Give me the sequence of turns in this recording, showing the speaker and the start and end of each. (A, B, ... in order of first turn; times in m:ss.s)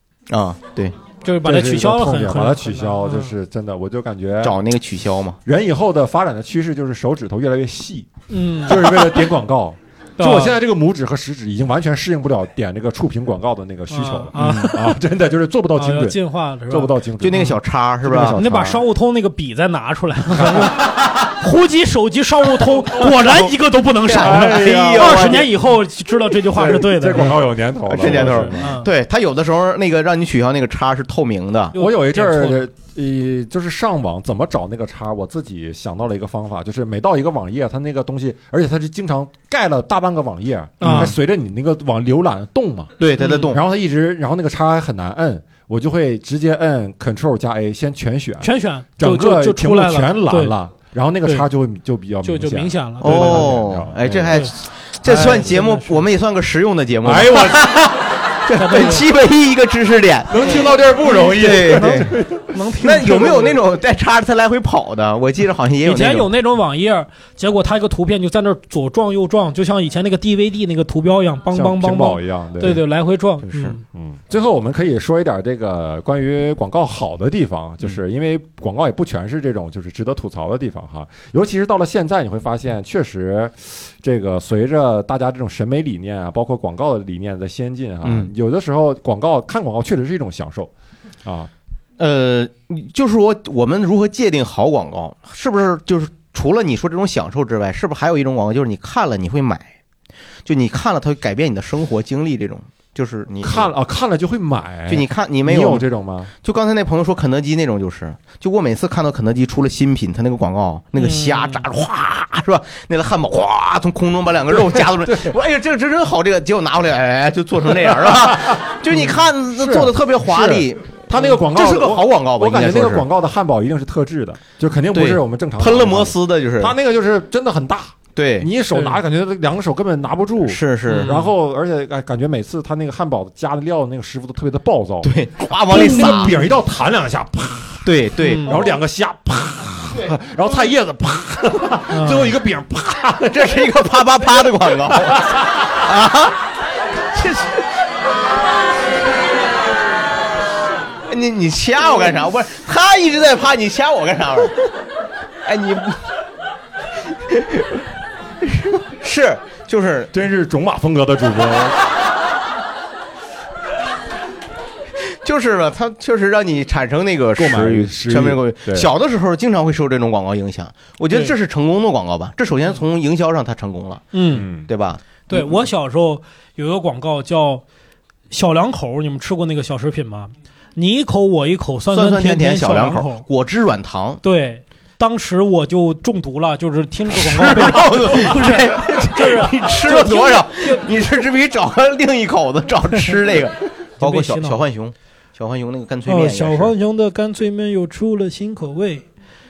0:00.3-0:00.9 A
0:01.2-0:03.3 B
0:01.4-0:04.6 C
0:04.4-0:05.4 A
0:05.4-0:08.1 C
0:08.3-0:09.2 B
0:08.6-0:18.8 C
0:10.2-0:10.6 B
0:13.9-0:14.9 B
0:14.4-0:14.7 A
0:15.7-0:16.9 B
0:17.2-0:18.4 A
0:18.3-0:27.3 B
0:20.3-0:20.7 C
0:24.0-0:25.5 A
0:24.1-0:25.4 C
0:26.5-0:28.7 C
0:27.9-0:31.7 A
0:28.0-0:28.9 B
0:31.7-0:32.6 B
0:31.7-0:54.5 C
0:40.8-0:41.1 B
0:40.8-0:41.1 A
0:43.0-0:43.6 A
0:43.2-0:43.5 B
0:48.4-0:50.5 B
0:52.2-0:53.6 B
0:53.0-1:00.6 A
0:55.0-0:55.6 C
0:55.4-0:55.9 B
0:57.0-0:57.7 C
0:58.6-0:59.0 B
1:00.3-1:02.5 C
1:01.1-1:03.6 B
1:01.2-1:02.1 A
1:02.8-1:06.3 A
1:05.8-1:13.8 B
1:11.5-1:12.8 C
1:13.5-1:13.7 A
1:13.9-1:30.7 C
1:28.0-1:28.3 A
1:31.2-1:31.5 C
1:32.0-1:39.7 A
1:40.4-1:43.7 A
1:43.4-1:46.3 C
1:44.9-1:45.8 A
1:46.4-2:03.0 A
1:51.0-1:51.6 B
1:54.6-1:55.3 C
1:58.3-1:58.6 C
1:59.5-2:23.9 C
2:04.9-2:06.7 A
2:08.2-2:08.5 A
2:10.4-2:11.2 A
2:10.9-2:11.3 B
2:15.0-2:16.4 A
2:15.7-2:16.3 B
2:17.8-2:18.6 A
2:18.2-2:18.6 B
2:21.9-2:22.3 B
2:23.3-2:26.4 A
2:27.1-2:27.6 A
2:31.1-2:34.6 A
2:35.4-2:36.0 A
2:37.3-2:37.7 A
2:38.4-2:40.1 A
2:40.1-2:41.8 C
2:45.1-2:55.5 A
2:47.4-2:48.9 C
2:54.1-2:54.5 B
2:54.3-2:54.7 C
2:55.3-2:57.6 B
2:58.3-3:03.2 B
3:01.9-3:04.2 A
3:04.2-3:10.9 B
3:07.1-3:16.7 A
3:14.0-3:14.6 B
3:16.1-3:19.0 B